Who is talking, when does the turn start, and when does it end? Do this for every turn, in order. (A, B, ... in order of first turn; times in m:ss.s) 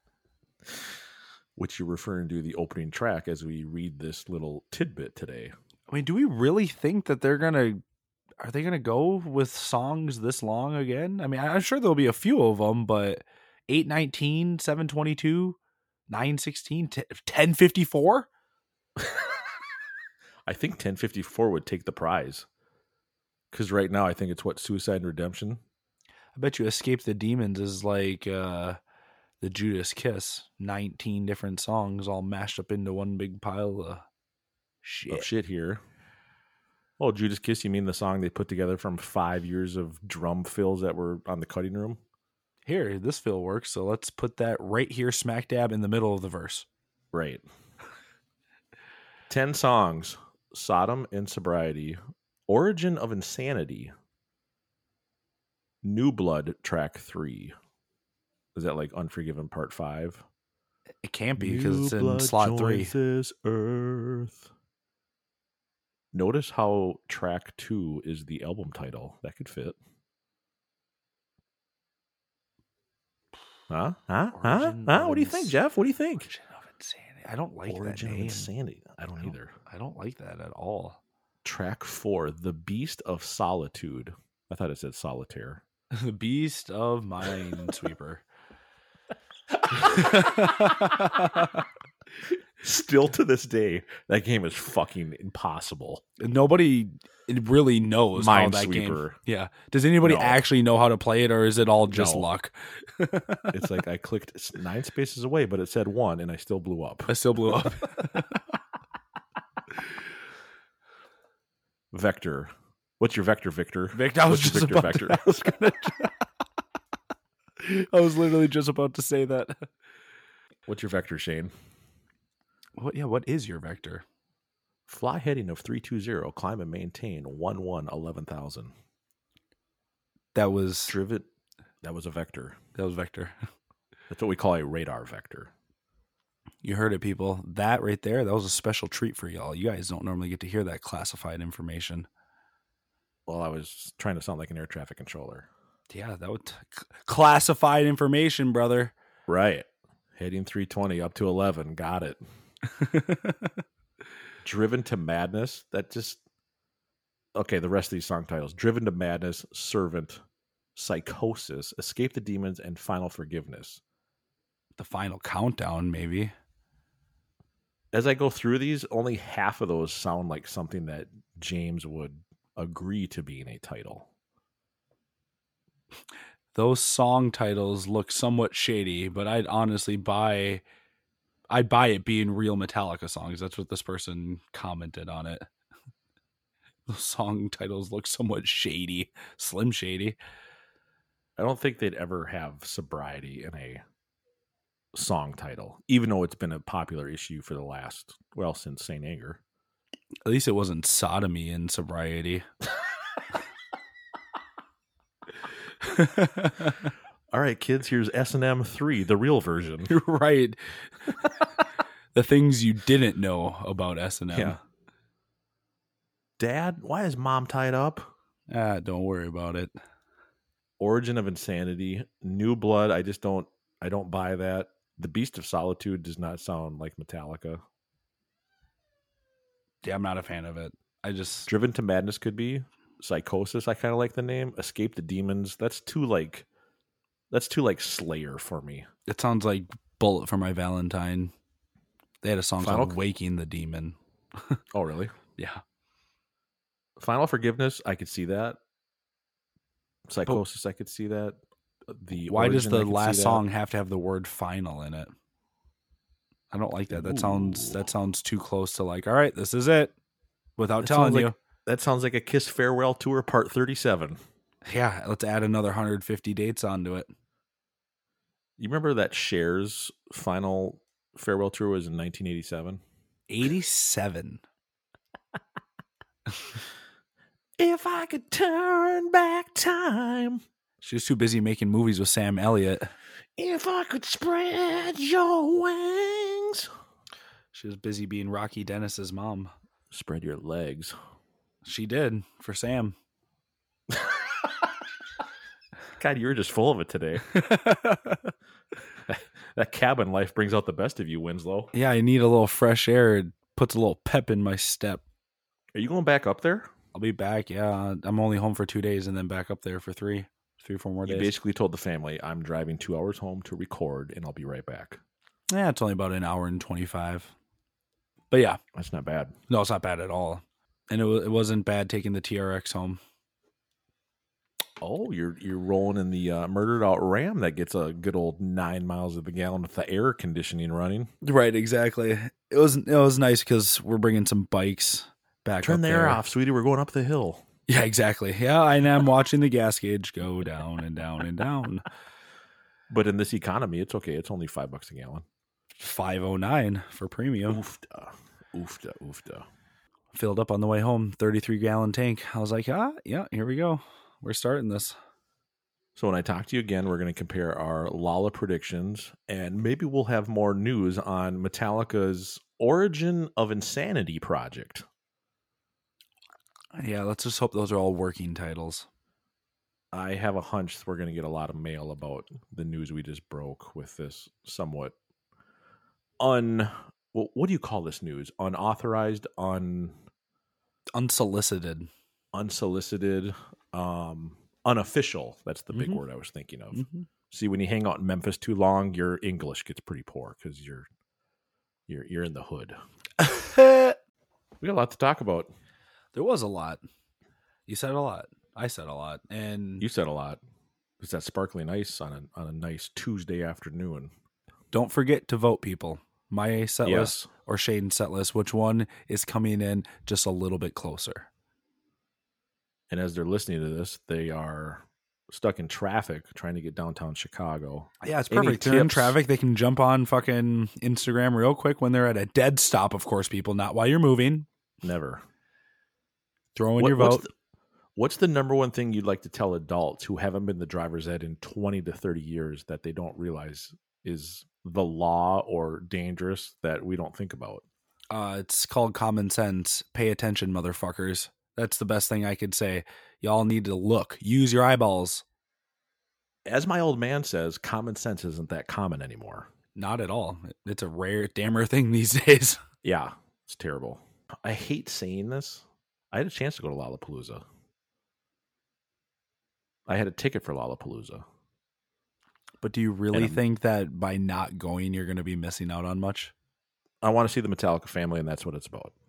0:01.6-0:05.5 A
0:05.9-0:07.8 B
0:08.4-0:15.6 B
0:16.1-0:18.3 B
0:19.0-0:19.2 A
0:20.5-0:22.4 A
0:23.5-0:25.6 A
0:26.4-0:28.8 B
0:29.4-0:34.0 B
0:34.8-0:35.3 B
0:35.1-0:35.8 A
0:37.0-0:42.0 A
0:42.6-0:46.7 B
0:47.1-0:47.4 A
0:49.3-0:53.9 A
0:55.8-0:57.5 A
0:58.5-1:00.2 A
1:01.0-1:02.9 B
1:01.4-1:04.5 A
1:06.1-1:09.8 A
1:13.7-1:16.3 A
1:14.3-1:15.6 B
1:16.2-1:18.5 B
1:17.6-1:19.5 A
1:19.2-1:21.0 B
1:21.4-1:25.6 A
1:25.9-1:28.2 B
1:29.7-1:31.6 B
1:29.8-1:30.7 A
1:32.6-1:36.0 A
1:36.2-1:43.5 B
1:38.1-1:39.2 A
1:40.0-1:40.4 A
1:41.9-1:42.3 A
1:43.5-1:47.1 A
1:47.1-1:48.3 B
1:51.9-1:55.5 A
1:53.9-1:56.1 B
1:57.6-1:59.7 B
2:00.6-2:01.5 A
2:02.8-2:04.0 B
2:04.9-2:08.7 A
2:10.3-2:10.9 B
2:10.9-2:11.3 A
2:11.8-2:12.6 A
2:12.8-2:13.3 B
2:14.1-2:15.5 A
2:16.6-2:22.1 B
2:23.3-2:25.5 A
2:25.9-2:28.9 B
2:29.3-2:32.2 A
2:32.8-2:33.5 B
2:34.4-2:36.2 A
2:37.3-2:40.2 A
2:40.8-2:43.8 A
2:44.8-2:46.3 B
2:47.9-2:54.1 A
2:56.5-3:00.6 B
3:01.5-3:05.5 B
3:06.9-3:10.2 B
3:11.4-3:13.8 A
3:14.9-3:19.4 A
3:20.2-3:22.4 B
3:25.8-3:26.9 B
3:27.3-3:29.9 A
3:29.9-3:30.9 B
3:32.1-3:34.6 B
3:34.3-3:34.6 A
3:36.4-3:38.1 A
3:38.5-3:39.7 B
3:40.8-3:47.6 A
3:49.8-3:51.5 B
3:51.5-3:56.4 A
3:57.3-3:58.9 A
3:59.1-4:01.3 B
4:02.2-4:04.0 B
4:02.6-4:03.0 A
4:04.7-4:05.1 A
4:05.4-4:05.6 B
4:07.0-4:08.6 A
4:10.1-4:13.4 A
4:12.3-4:15.1 B
4:16.5-4:19.9 B
4:16.9-4:17.9 A
4:20.6-4:21.3 B
4:20.8-4:24.2 A
4:24.6-4:27.1 B
4:28.6-4:32.8 A
4:33.3-4:34.4 B
4:37.6-4:40.4 A
4:40.8-4:42.9 B
4:43.4-4:46.7 A
4:47.5-4:49.5 B
4:49.9-4:50.9 A
4:51.6-4:52.9 B
4:53.9-4:54.3 A
4:56.0-4:57.2 A
4:57.3-4:58.3 B
4:59.1-5:01.7 A
5:01.7-5:05.0 B
5:05.7-5:06.7 A
5:06.9-5:11.3 B
5:11.0-5:15.0 A
5:15.5-5:17.3 B
5:18.3-5:18.6 B
5:18.7-5:19.3 A
5:19.5-5:23.0 B
5:24.8-5:31.1 A
5:31.2-5:36.2 B
5:35.6-5:37.4 A
5:37.7-5:41.8 B
5:42.9-5:45.2 A
5:45.8-5:47.6 B
5:47.4-5:49.5 A
5:50.1-5:55.0 B
5:55.9-6:04.8 A
6:06.7-6:08.8 B
6:09.9-6:14.9 A
6:16.2-6:20.0 A
6:21.0-6:21.9 B
6:22.3-6:30.8 A
6:25.7-6:26.0 B
6:26.7-6:27.0 B
6:31.9-6:32.8 A
6:33.2-6:34.0 B
6:34.6-6:35.5 A
6:36.1-6:36.8 B
6:37.7-6:39.8 B
6:39.8-6:40.4 A
6:41.0-6:44.1 A
6:44.7-6:51.3 B
6:46.8-6:47.3 A
6:52.9-6:59.2 A
6:58.0-7:04.5 B
7:04.8-7:05.2 A
7:06.6-7:07.3 B
7:06.8-7:07.3 A
7:08.0-7:17.6 A
7:18.1-7:25.2 B
7:26.4-7:29.5 A
7:29.8-7:32.6 B
7:32.8-7:37.4 A
7:39.9-7:41.2 A
7:42.6-7:46.3 B
7:43.1-7:43.4 A
7:47.0-7:48.9 A